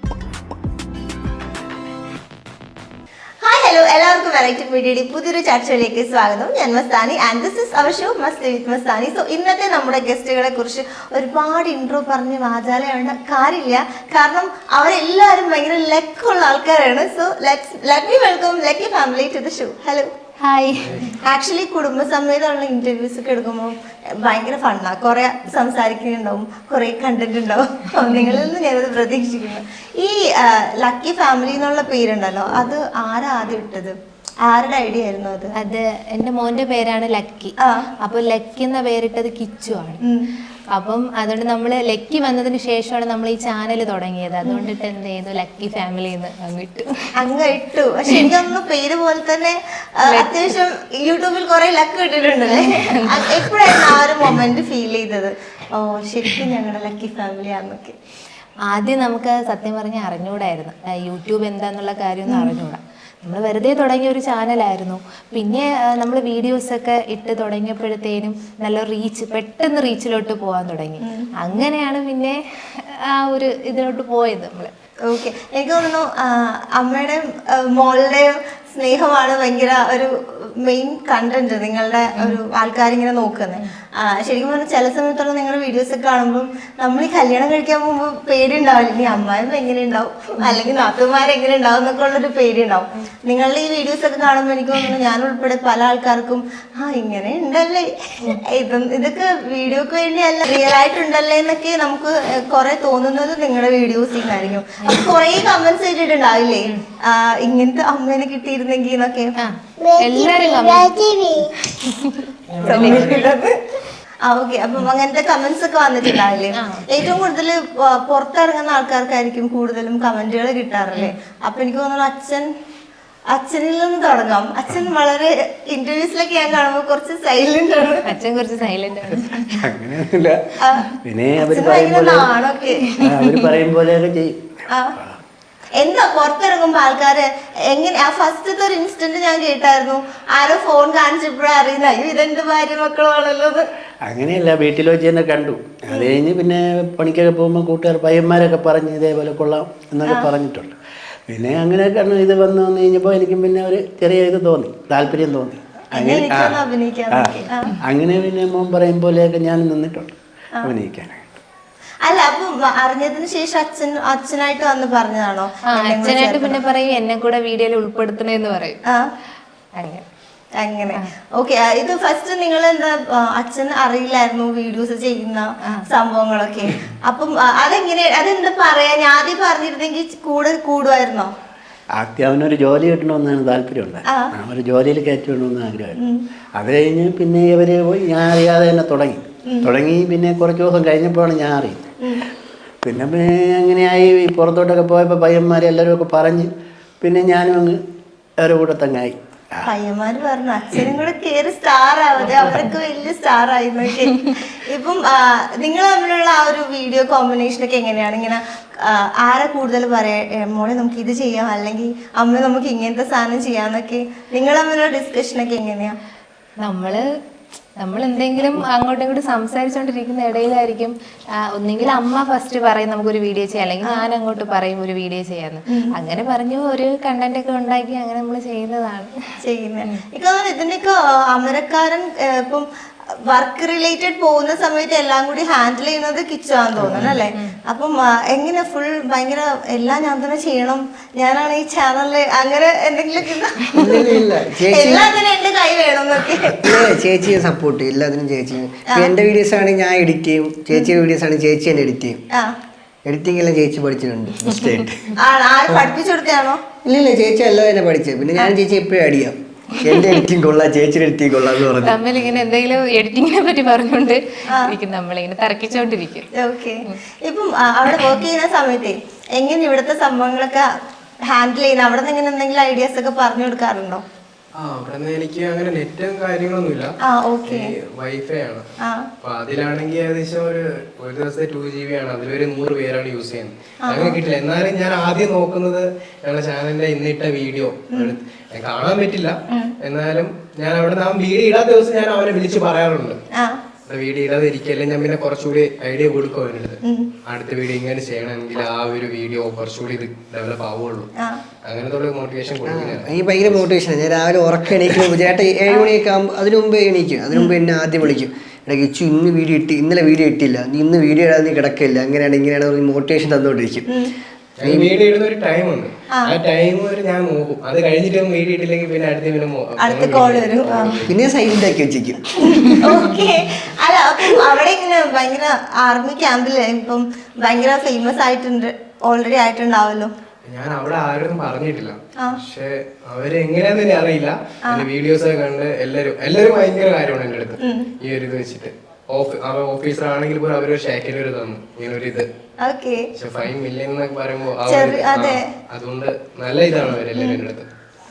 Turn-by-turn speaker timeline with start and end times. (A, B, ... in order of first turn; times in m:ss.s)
0:03.4-0:20.1 A
0:20.4-0:21.1 B
0:20.8-0:21.2 C
0:21.2-0:35.5 A
0:28.0-0:28.4 B
0:35.6-0:40.0 B
0:37.6-0:37.9 A
0:40.7-0:47.1 B
0:44.4-0:44.7 A
0:47.1-0:58.0 A
0:50.0-0:50.4 B
0:52.5-0:54.0 B
0:58.7-1:14.7 B
1:02.3-1:02.5 A
1:11.0-1:11.6 A
1:15.0-1:49.3 A
1:44.8-1:45.2 B
1:49.4-1:53.3 B
1:52.6-1:53.6 A
1:54.2-2:02.5 A
1:56.5-1:57.0 B
2:03.3-2:08.1 A
2:08.0-2:09.6 B
2:09.6-2:10.4 D
2:10.6-2:13.0 A
2:11.0-2:12.3 D
2:13.0-2:15.2 D
2:15.8-2:23.6 A
2:24.0-2:30.7 D
2:31.3-2:41.4 D
2:35.9-2:37.7 A
2:42.0-2:46.6 A
2:45.7-2:48.8 B
2:48.8-2:49.1 A
2:49.8-2:50.0 B
2:50.6-3:01.3 A
3:02.0-3:06.0 D
3:06.6-3:11.8 D
3:12.8-3:16.5 D
3:17.0-3:17.8 D
3:18.4-3:19.7 D
3:19.6-3:36.0 A
3:36.6-3:37.1 B
3:37.8-3:49.1 B
3:49.4-3:52.6 A
3:53.2-4:06.9 A
3:56.8-3:57.1 E
4:03.7-4:05.1 E
4:06.5-4:12.2 E
4:13.0-4:14.8 E
4:14.5-4:15.0 D
4:15.2-4:16.6 A
4:16.8-4:22.0 E
4:21.8-4:26.3 B
4:26.3-4:30.7 A
4:31.2-4:34.0 A
4:34.5-4:36.9 C
4:37.0-4:37.7 A
4:37.5-4:38.7 C
4:38.8-4:39.1 A
4:39.2-4:53.2 C
4:43.8-4:44.2 A
4:47.9-4:48.2 A
4:53.3-4:53.6 A
4:53.9-5:01.1 C
4:56.8-4:57.1 A
5:01.6-5:03.6 C
5:02.6-5:13.9 E
5:14.6-5:21.2 C
5:14.6-5:14.9 E
5:19.8-5:20.9 A
5:21.1-5:22.7 E
5:22.4-5:30.1 A
5:30.4-5:42.3 C
5:37.6-5:37.9 A
5:42.6-5:43.0 A
5:43.1-5:47.7 C
5:44.7-5:45.4 A